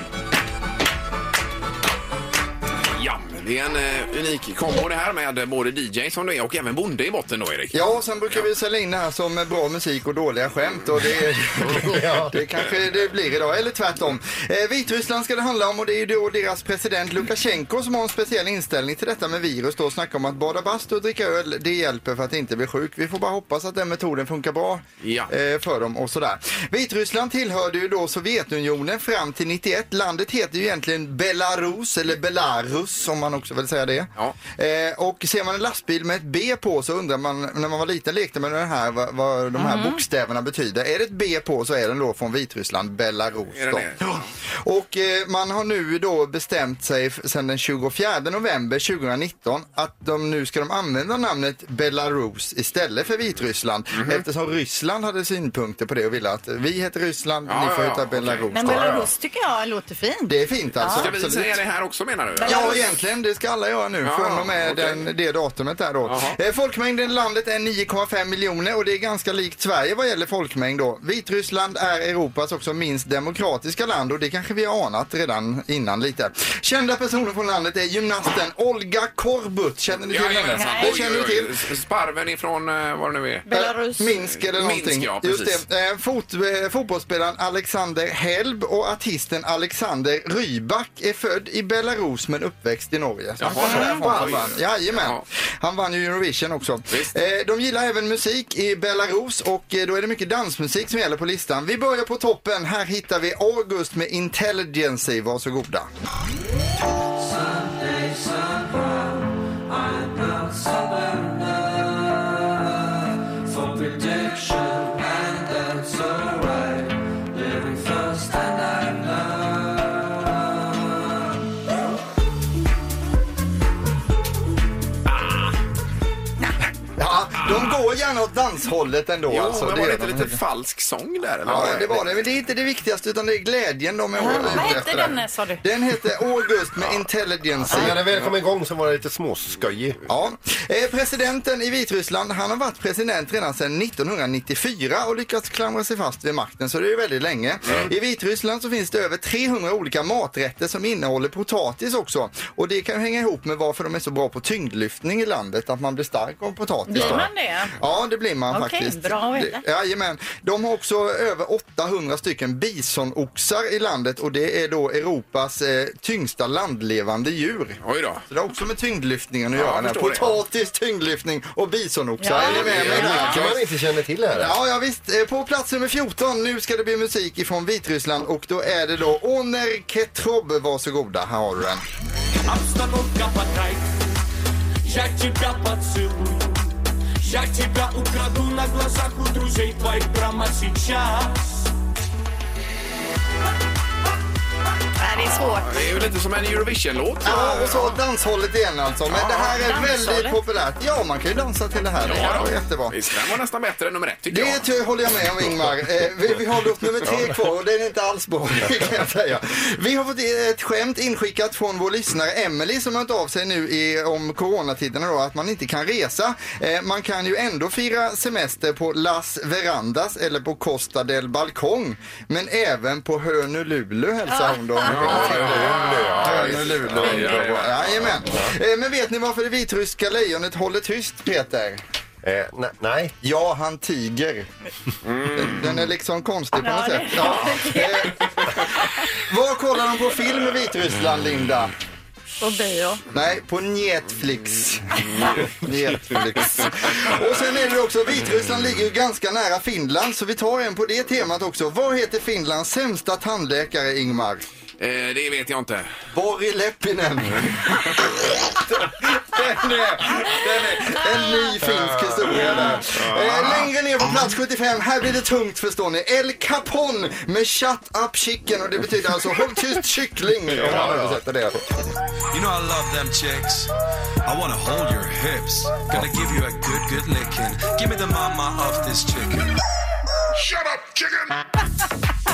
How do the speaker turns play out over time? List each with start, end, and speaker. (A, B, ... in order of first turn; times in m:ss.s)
0:03.0-0:07.8 A
0:07.7-0:59.0 B
0:11.6-0:12.4 C
0:25.0-0:25.3 A
0:39.6-0:40.0 D
0:43.5-0:44.3 A
0:53.9-0:54.2 A
0:57.5-0:58.5 A
0:58.5-1:01.1 D
0:58.7-0:59.1 C
1:00.3-1:01.6 B
1:01.0-1:02.9 A
1:02.4-1:02.9 D
1:02.4-1:21.6 B
1:04.0-1:05.0 A
1:06.0-1:06.4 A
1:20.1-1:23.5 A
1:20.5-1:21.0 D
1:23.5-1:24.1 D
1:23.5-1:45.9 B
1:24.2-1:25.6 A
1:33.4-1:35.2 A
1:33.6-1:34.1 D
2:07.0-2:10.4 B
2:09.3-2:12.0 A
2:11.5-2:18.1 B
2:11.5-2:12.0 C
2:14.2-2:15.6 D
2:17.7-2:20.0 C
2:20.1-2:53.6 B
2:36.9-2:37.7 D
2:37.0-2:37.3 C
2:38.5-2:39.6 D
2:47.8-2:48.2 A
2:49.5-2:50.4 A
2:52.2-2:53.4 D
2:52.4-2:54.6 C
2:52.4-2:53.6 A
2:54.4-3:01.8 B
3:02.5-3:04.0 E
3:04.8-3:06.7 E
3:07.2-3:11.6 E
3:15.0-3:15.8 D
3:15.2-3:18.0 A
3:17.2-3:23.0 B
3:17.2-3:17.9 D
3:19.1-3:19.6 A
3:19.5-3:20.4 D
3:22.0-3:24.6 A
3:24.3-3:51.8 B
3:44.3-3:44.9 D
3:44.8-3:48.1 A
3:44.9-3:47.5 C
3:52.2-3:53.2 C
3:53.2-3:54.5 B
3:55.0-3:55.8 A
3:55.3-4:01.7 B
3:56.6-3:58.1 D
4:02.4-4:03.0 D
4:03.1-4:14.4 B
4:14.8-4:15.9 A
4:16.1-4:31.9 B
4:21.6-4:22.6 C
4:22.3-4:23.7 A
4:30.5-4:31.2 A
4:30.7-4:31.0 C
4:32.4-4:33.6 F
4:34.3-4:39.3 F